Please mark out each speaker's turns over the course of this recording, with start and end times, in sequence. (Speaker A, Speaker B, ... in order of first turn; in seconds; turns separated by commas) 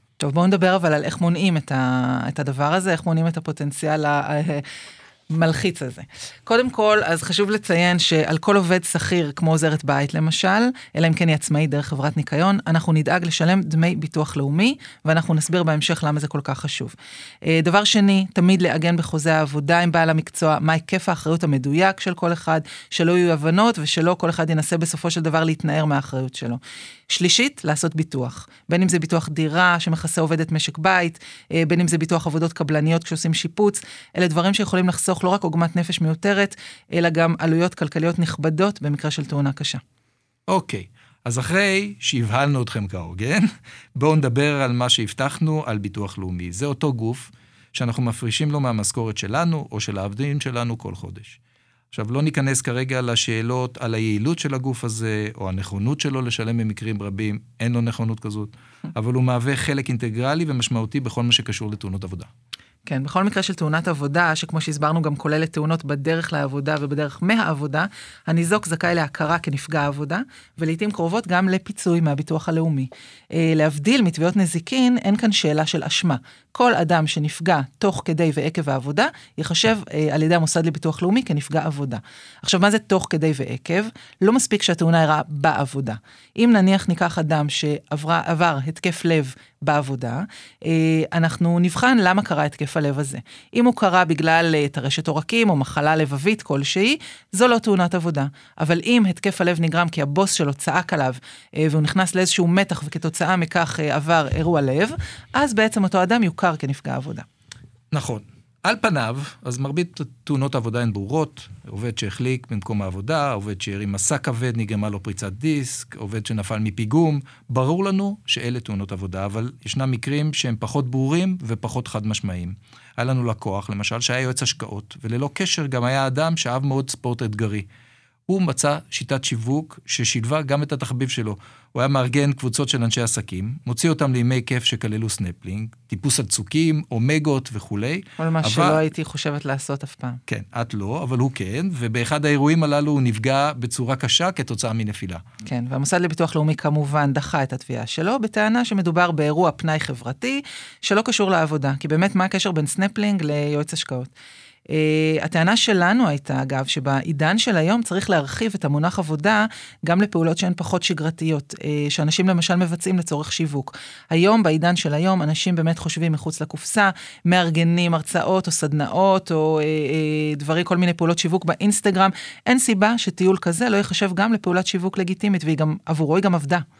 Speaker A: 0.2-4.6, Speaker A: 5.3-39.8, Speaker B: 40.5-51.4, Speaker B: 51.9-62.3, Speaker A: 62.9-107.3, Speaker B: 107.9-127.7, Speaker B: 128.3-138.8, Speaker A: 138.2-140.2, Speaker B: 140.3-145.2, Speaker A: 145.4-154.1, Speaker A: 154.7-176.6